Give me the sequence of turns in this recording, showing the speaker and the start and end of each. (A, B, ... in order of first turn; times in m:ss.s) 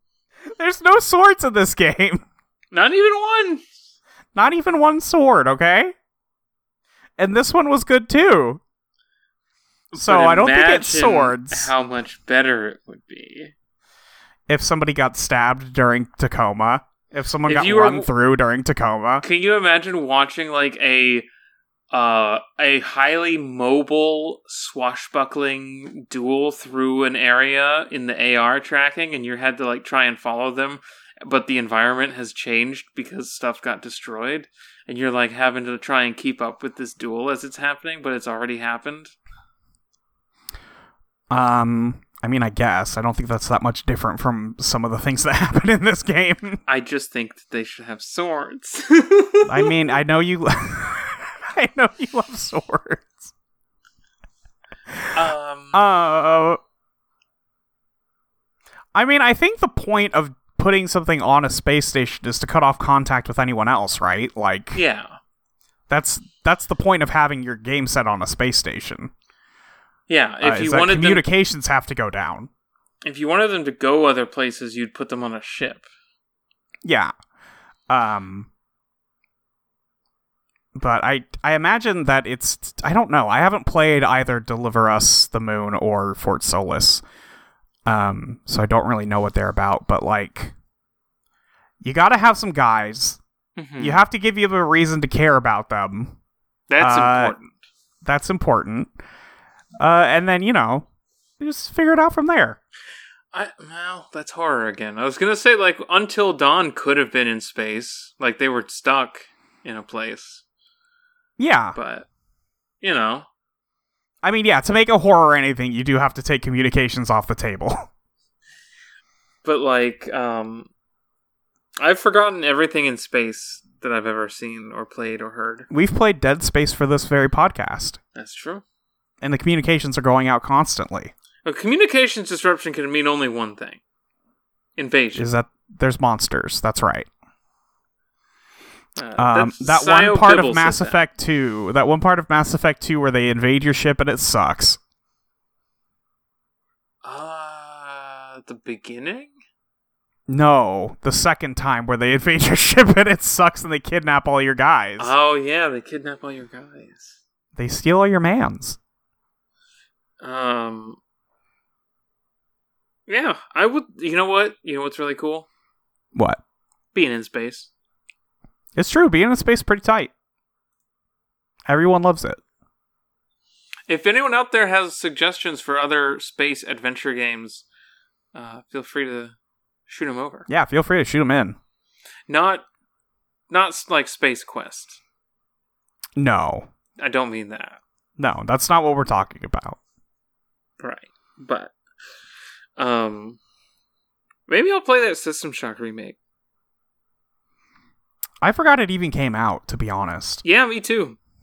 0:00.6-0:02.2 A
0:02.7-0:03.6 B
0:04.3-0:05.9 A
0:07.2-0:08.6 A
0:09.9-0:13.5 B
0:09.9-0:11.7 A
0:14.5-0:19.2 A
0:17.5-0:18.1 B
0:19.2-0:21.3 B
0:21.9-0:39.1 B
0:41.3-0:46.6 A
0:46.7-0:49.7 B
0:49.5-0:53.3 A
0:55.1-0:55.8 B
0:55.7-0:56.6 A
0:58.9-1:04.8 A
1:04.7-1:05.2 B
1:05.9-1:09.1 A
1:10.1-1:11.2 B
1:10.4-1:12.5 A
1:13.0-1:15.8 B
1:16.8-1:17.1 A
1:17.9-1:18.5 A
1:20.7-1:27.0 A
1:27.8-1:30.5 A
1:31.8-1:33.2 A
1:33.6-1:34.0 B
1:33.8-1:36.2 A
1:36.7-1:37.5 B
1:36.8-1:37.3 A
1:38.0-1:38.9 A
1:39.8-1:40.9 A
1:41.4-1:42.6 A
1:43.3-1:50.4 B
1:51.4-1:51.8 A
1:51.7-1:52.1 B
1:52.8-1:53.3 B
1:54.2-1:57.9 A
1:59.4-2:00.7 B
2:01.8-2:05.7 B
2:05.7-2:08.0 A
2:08.1-2:08.6 B
2:09.2-2:11.1 A
2:11.4-2:13.8 B
2:14.8-2:15.3 B
2:15.1-2:17.1 A
2:19.0-2:21.0 B
2:19.2-2:24.8 A
2:27.0-2:29.3 B
2:30.3-2:35.1 A
2:35.0-2:37.2 B
2:37.6-2:38.8 A
2:40.2-2:41.0 B
2:43.1-2:45.5 B
2:46.1-2:46.4 A
2:46.9-2:47.7 B
2:48.8-2:50.1 A
2:51.7-2:52.4 A
2:53.9-2:57.6 B
2:58.3-2:59.3 B
2:59.9-3:00.5 B
3:00.5-3:01.6 A
3:02.3-3:02.6 B
3:03.5-3:05.0 B
3:06.2-3:06.7 A
3:07.0-3:07.8 B
3:08.2-3:09.8 A
3:10.8-3:11.7 B
3:12.8-3:13.4 B
3:14.5-3:16.2 B
3:18.4-3:20.4 A
3:20.4-3:21.2 B